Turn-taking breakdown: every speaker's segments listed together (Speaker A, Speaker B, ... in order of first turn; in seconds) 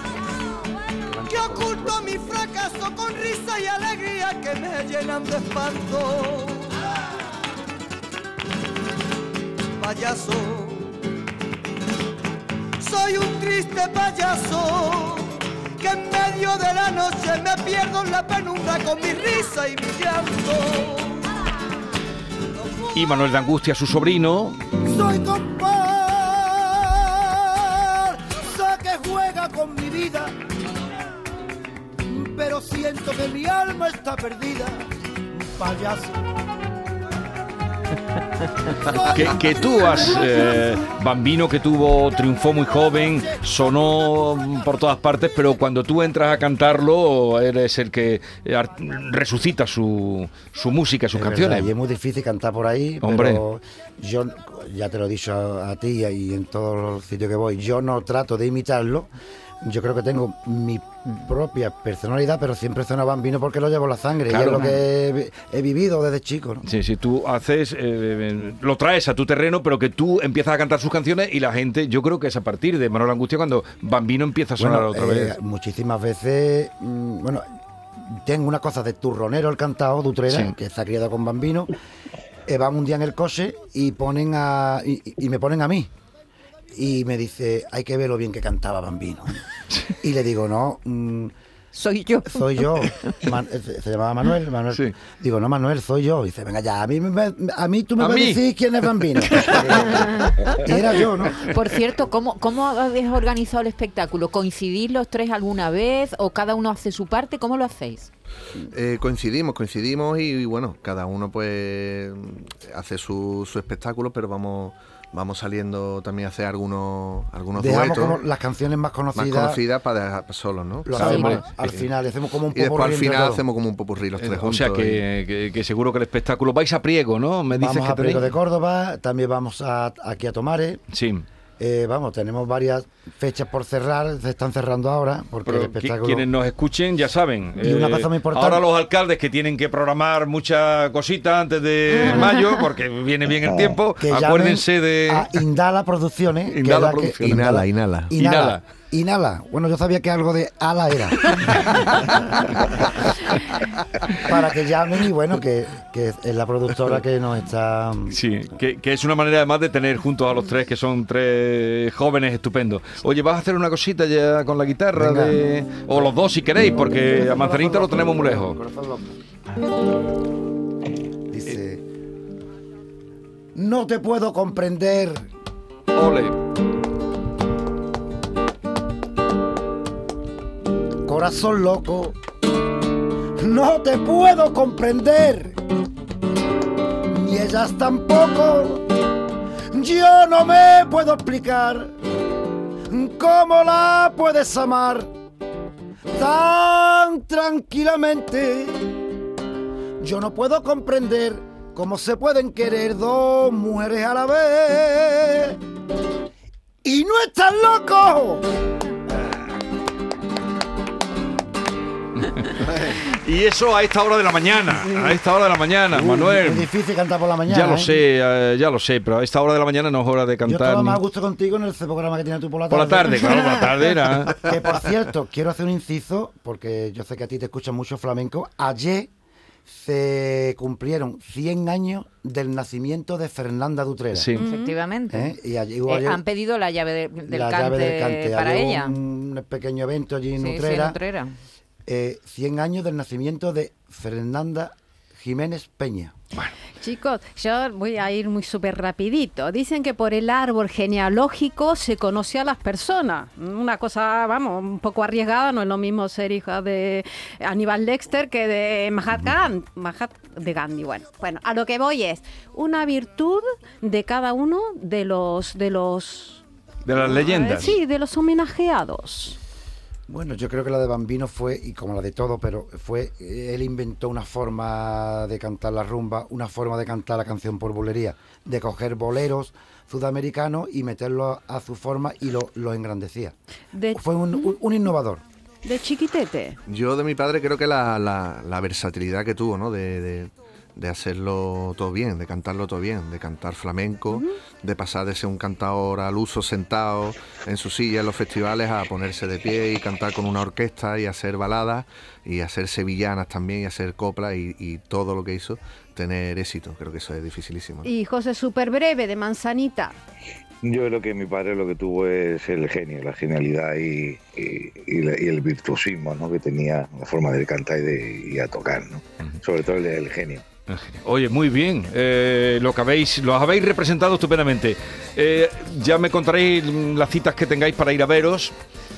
Speaker A: 1.0-6.9, 9.8-10.9, 12.8-21.3
Speaker B: 22.9-24.6, 39.1-51.7, 53.0-53.4, 64.3-64.7, 66.6-75.3, 80.3-80.5, 98.0-98.4, 99.2-99.7, 120.9-121.4, 124.2-128.3, 130.9-131.2, 135.4-145.3, 146.5-147.5, 148.2-148.6, 158.1-168.6, 175.9-176.3, 212.2-216.7, 217.5-221.0, 222.7-224.5, 234.1-234.4, 266.8-267.8, 320.7-328.5
Speaker C: 24.8-30.3, 32.1-34.8, 35.4-36.2, 38.6-40.0, 51.1-59.1, 59.6-66.6, 74.6-77.4, 78.0-81.7, 82.5-85.9, 86.7-89.4, 90.0-91.3, 92.3-101.4, 117.5-119.6, 120.8-123.4, 127.5-130.8, 131.6-136.2, 137.6-138.6, 144.0-151.7, 154.2-158.2, 164.9-166.1, 166.7-169.2, 171.3-171.8, 173.5-175.2, 181.0-182.2, 183.4-185.6, 187.1-188.9, 189.7-191.9, 192.9-195.1, 196.1-198.9, 200.0-205.6, 206.8-208.4, 215.9-217.9, 220.4-223.5, 224.3-229.1, 229.7-234.3, 235.1-236.2, 237.3-241.0, 241.9-246.1, 270.1-283.4, 283.9-285.2
Speaker D: 91.7-93.1, 99.7-100.3, 101.4-108.1, 121.0-121.4, 142.0-142.4, 234.4-235.3, 235.8-239.0, 240.3-241.3
Speaker E: 108.7-118.2, 119.1-121.9, 122.5-125.0, 146.9-148.1, 286.7-307.9
Speaker F: 143.4-143.8, 310.6-320.4
Speaker G: 234.4-234.8, 246.8-266.4, 267.0-269.4, 283.7-284.6, 285.6-286.6, 307.8-309.9